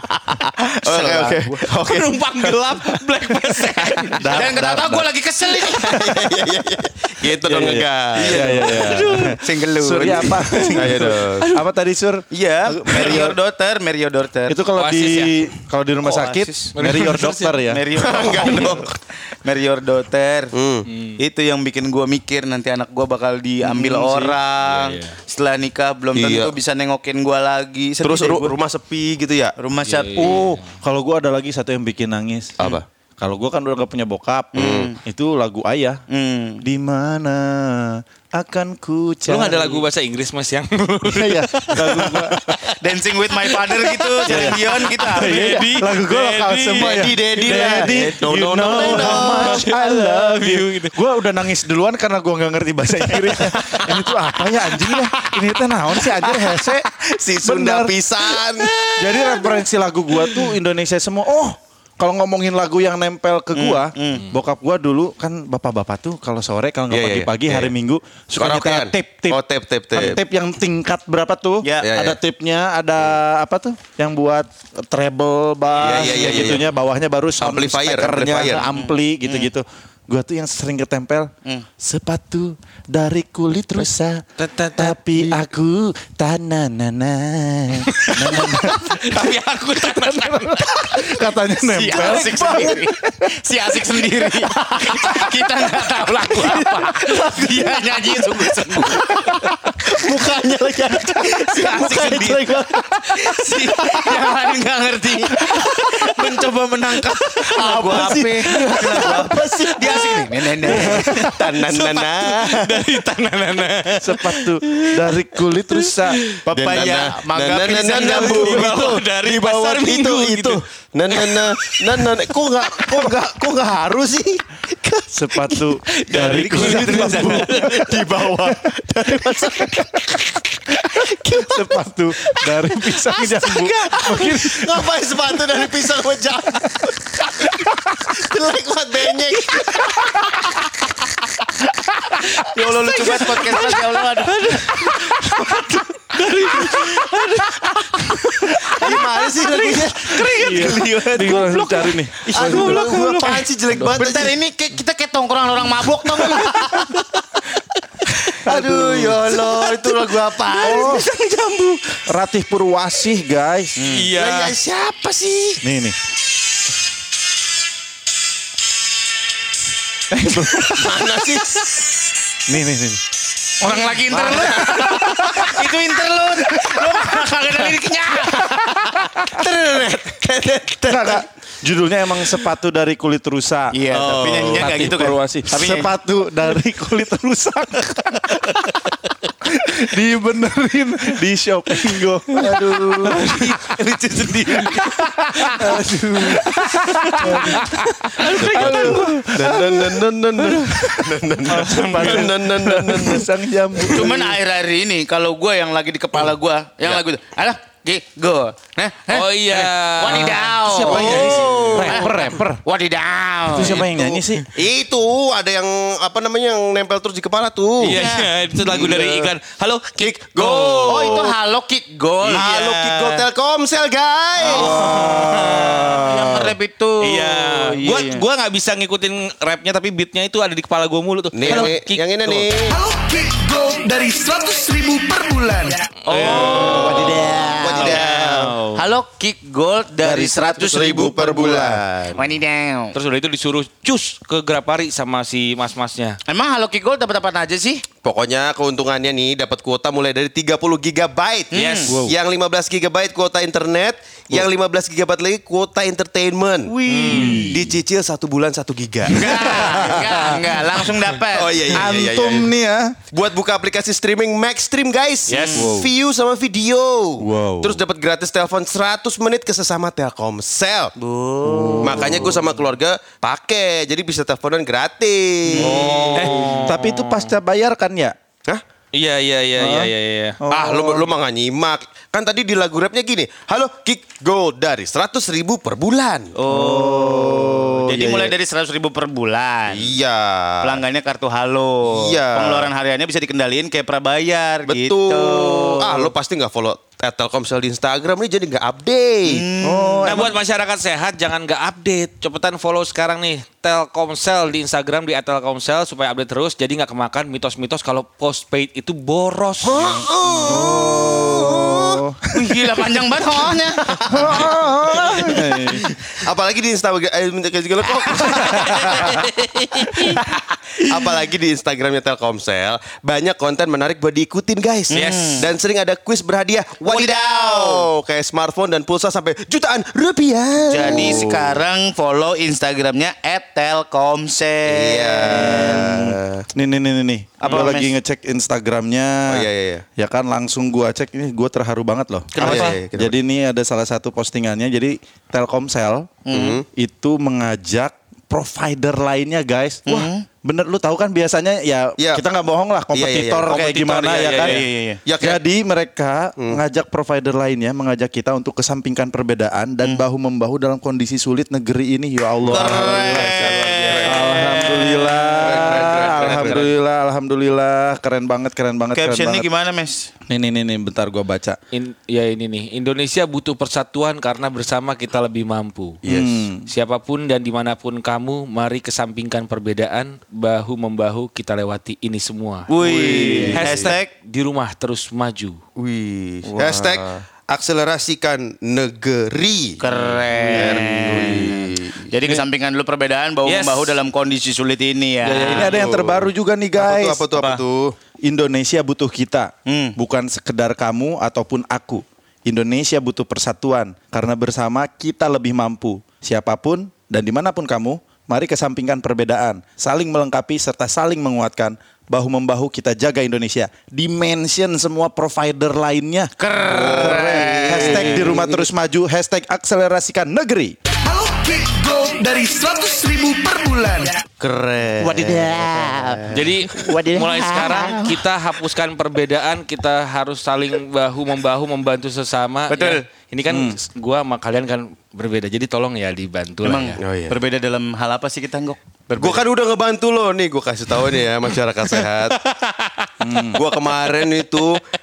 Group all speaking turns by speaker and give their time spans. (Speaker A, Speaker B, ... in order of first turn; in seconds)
Speaker A: 0.1-1.5, 4.3-6.4, 9.4-10.8, 12.3-14.6, 16.0-16.7, 17.7-20.5, 21.2-28.5, 29.6-30.6, 34.5-35.0, 36.1-36.6, 42.7-45.6, 47.2-49.6, 63.5-64.3, 71.6-71.9, 78.6-78.9, 91.6-99.4, 101.1-102.6, 103.2-111.3, 116.4-119.0, 126.2-127.5, 134.2-136.2, 142.3-145.2, 148.8-157.0, 158.2-161.1, 163.8-165.6, 173.6-180.0, 183.7-185.9, 192.3-194.9, 203.9-213.9, 217.9-218.3, 220.8-223.3, 224.4-225.0, 225.9-228.2, 236.1-241.2, 242.1-242.9, 246.3-247.8, 251.5-252.0, 256.6-257.6, 259.1-261.8, 271.0-272.2, 275.5-276.6, 286.4-289.9, 290.6-296.1, 299.2-300.3, 312.3-314.4, 324.9-325.5, 326.9-327.9, 330.6-336.1, 337.4-337.9, 342.3-342.8, 346.2-346.6, 349.9-350.2, 354.4-355.0, 362.4-365.5, 368.9-370.1, 382.7-384.1, 386.4-387.2, 389.8-395.7, 397.3-397.6, 399.6-400.0, 416.4-418.5, 424.4-428.2, 432.7-433.0, 436.6-439.4
Speaker B: 0.8-2.6, 5.7-8.9, 10.7-11.4, 17.9-18.9, 20.5-20.9, 26.1-26.5, 28.0-29.5, 32.6-32.8, 34.5-34.9, 46.8-49.7, 56.3-59.5, 66.9-67.7, 68.3-70.2, 71.8-72.2, 75.8-76.7, 77.4-78.8, 100.1-100.8, 110.8-112.8, 116.5-125.1, 126.5-130.1, 131.0-131.6, 133.5-137.4, 138.0-139.9, 148.7-151.3, 152.3-154.3, 158.4-162.0, 170.5-171.8, 174.1-175.7, 179.3-181.2, 183.9-184.7, 192.5-193.2, 198.3-203.3, 203.8-204.1, 210.8-212.1, 213.6-218.0, 218.5-219.3, 220.0-221.4, 222.2-224.9, 231.3-232.8, 236.2-238.1, 240.6-242.2, 248.0-260.0, 261.3-262.5, 263.1-270.9, 271.8-276.1, 280.5-286.3, 289.7-290.8, 291.9-292.7, 294.7-299.4, 309.6-312.0, 313.9-315.4, 316.2-319.2, 320.1-331.6, 334.7-336.4, 339.3-339.8, 342.4-343.1, 346.3-346.6, 352.9-353.5, 355.0-355.4, 362.4-364.6, 365.4-366.7, 376.0-376.5, 382.8-383.9, 385.8-389.8, 390.5-392.0, 395.4-397.9, 416.7-418.6, 437.0-437.4, 439.1-442.4, 443.5-444.8
Speaker C: 1.7-4.7, 8.6-9.4, 10.4-11.6, 14.7-15.4, 16.8-17.6, 20.9-21.2, 24.6-25.2, 29.8-30.6, 39.2-42.7, 43.4-47.0, 49.2-51.0, 53.2-53.8, 75.8-76.6, 84.4-85.0, 87.9-91.1, 108.7-110.2, 110.7-116.4, 117.9-123.1, 125.8-127.9, 142.4-149.0, 149.7-150.3, 152.4-153.4, 163.8-164.6, 184.6-185.0, 193.2-193.5, 194.2-195.6, 196.5-199.2, 201.7-202.3, 209.1-211.4, 217.8-221.2, 224.5-226.1, 227.0-232.5, 236.1-237.2, 237.7-238.9, 242.9-246.2, 251.5-252.0, 256.9-257.5, 265.3-265.7, 275.6-277.3, 278.9-280.4, 300.0-310.1, 318.8-320.2, 324.9-325.4, 353.5-354.6, 365.8-366.6, 371.7-376.0, 376.7-382.7, 383.5-385.6, 389.9-391.5, 393.4-394.0, 395.3-395.7, 426.3-437.0, 442.4-443.5
Speaker D: 4.2-5.1, 7.4-13.4, 14.5-17.9, 24.0-24.3, 30.7-32.6, 33.2-36.0, 36.6-39.8, 41.0-42.5, 44.2-57.9, 59.0-69.4, 69.9-84.2, 84.8-93.4, 94.5-95.3, 96.3-104.2, 105.4-106.2, 107.1-109.7, 110.6-111.5, 114.0-116.2, 125.1-130.2, 131.1-134.8, 137.5-137.8, 146.4-146.8, 150.3-152.9, 158.4-159.2, 160.6-161.1, 162.1-163.8, 165.6-165.9, 170.1-171.1, 172.5-173.0, 174.2-175.5, 180.9-183.7, 184.6-188.9, 189.4-193.4, 194.8-204.4, 210.2-212.6, 213.5-214.4, 224.4-226.5, 236.7-237.6, 240.0-241.8, 251.9-252.1, 257.0-257.7, 259.4-260.6, 261.7-263.0, 265.5-265.9, 267.2-267.8, 271.5-272.4, 276.1-278.1, 279.6-281.1, 286.5-288.3, 299.6-300.3, 310.4-312.6, 314.0-315.9, 318.7-319.0, 335.2-346.1, 346.7-354.6, 355.2-369.5, 370.3-371.6, 376.1-376.6, 395.4-397.2, 398.2-420.7, 425.0-426.2, 426.9-427.4, 433.5-433.8, 443.2-443.6
Speaker E: 232.7-235.9, 421.0-424.2